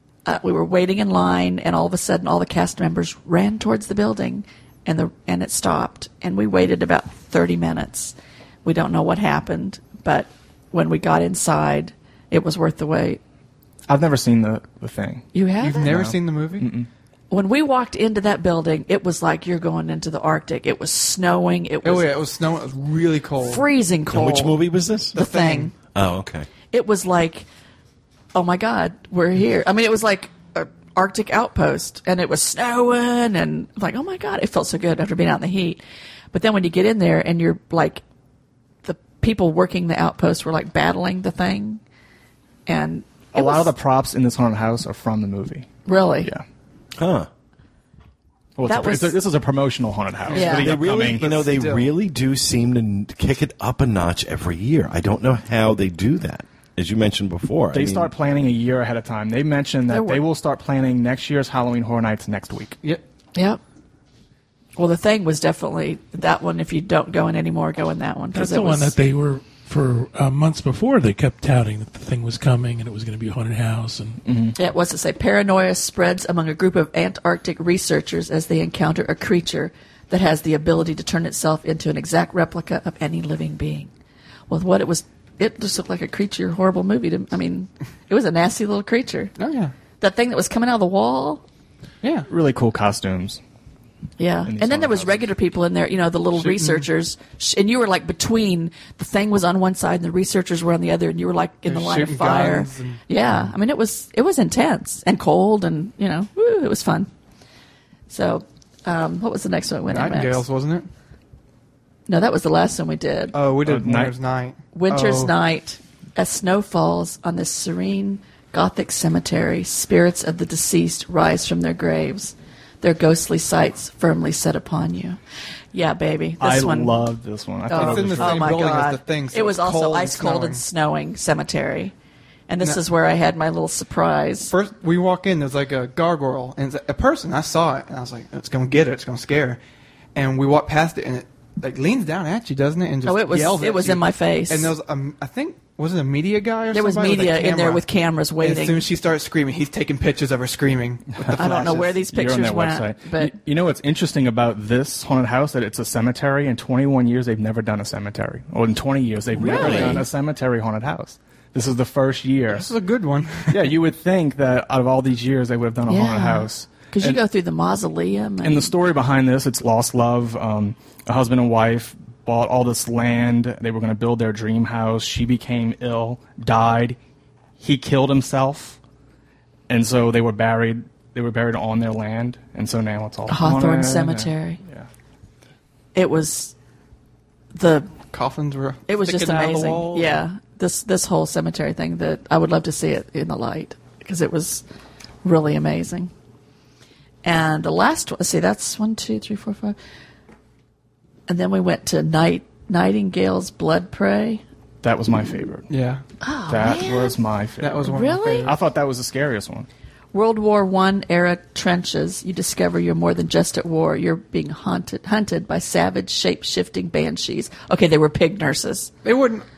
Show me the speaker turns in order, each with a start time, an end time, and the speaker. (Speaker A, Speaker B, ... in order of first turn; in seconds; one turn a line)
Speaker A: 0.3-13.2
Speaker B: 13.9-15.3
Speaker A: 15.3-16.0
Speaker C: 15.6-16.7
Speaker B: 15.8-16.9
Speaker A: 17.3-22.1
Speaker C: 21.8-23.7
Speaker A: 23.4-24.6
Speaker D: 24.1-25.2
Speaker C: 25.1-25.7
Speaker A: 25.1-25.7
Speaker D: 25.9-26.5
Speaker A: 26.7-27.5
Speaker A: 28.3-35.8
Speaker A: 36.3-38.0
Speaker A: 38.8-41.8
Speaker A: 42.7-43.7
Speaker B: 43.3-45.7
Speaker A: 45.9-46.3
Speaker D: 47.0-47.3
Speaker B: 48.6-51.3
Speaker A: 48.7-49.2
Speaker C: 50.3-51.9
Speaker A: 50.3-50.7
Speaker D: 50.5-58.1
Speaker B: 57.7-62.8
Speaker A: 59.9-60.2
Speaker A: 63.4-63.6
Speaker A: 64.8-69.0
Speaker E: 68.3-74.2
Speaker B: 74.2-74.6
Speaker A: 74.6-83.9
Speaker A: 84.5-89.3
Speaker C: 89.4-89.7
Speaker A: 90.0-91.4
Speaker C: 92.0-92.3
Speaker B: 92.3-93.4
Speaker A: 94.2-107.1
Speaker B: 94.5-95.3
Speaker C: 96.4-96.8
Speaker C: 101.7-103.0
Speaker A: 108.1-110.4
Speaker C: 109.9-110.9
Speaker A: 112.1-113.4
Speaker C: 113.3-115.3
Speaker B: 113.6-114.1
Speaker A: 114.7-125.2
Speaker A: 125.7-127.0
Speaker B: 126.4-128.7
Speaker A: 127.7-131.9
Speaker C: 127.7-130.6
Speaker A: 132.5-134.5
Speaker C: 134.5-139.6
Speaker C: 140.2-147.8
Speaker A: 143.1-144.7
Speaker A: 146.7-148.9
Speaker C: 148.4-152.0
Speaker B: 151.2-162.7
Speaker A: 151.4-153.3
Speaker A: 159.4-160.1
Speaker D: 159.4-160.0
Speaker C: 159.4-160.0
Speaker C: 162.5-163.8
Speaker B: 163.5-167.2
Speaker A: 165.9-168.8
Speaker B: 168.4-177.0
Speaker B: 177.6-178.8
Speaker B: 179.7-184.9
Speaker A: 183.3-184.6
Speaker A: 185.9-186.5
Speaker A: 187.5-187.9
Speaker C: 188.1-190.2
Speaker A: 188.9-194.6
Speaker A: 195.2-196.1
Speaker A: 197.2-199.8
Speaker A: 201.3-204.4
Speaker B: 204.8-205.7
Speaker C: 205.7-206.0
Speaker A: 206.2-207.2
Speaker B: 206.5-209.7
Speaker C: 207.6-208.6
Speaker A: 207.8-208.5
Speaker A: 210.1-218.9
Speaker C: 219.0-219.5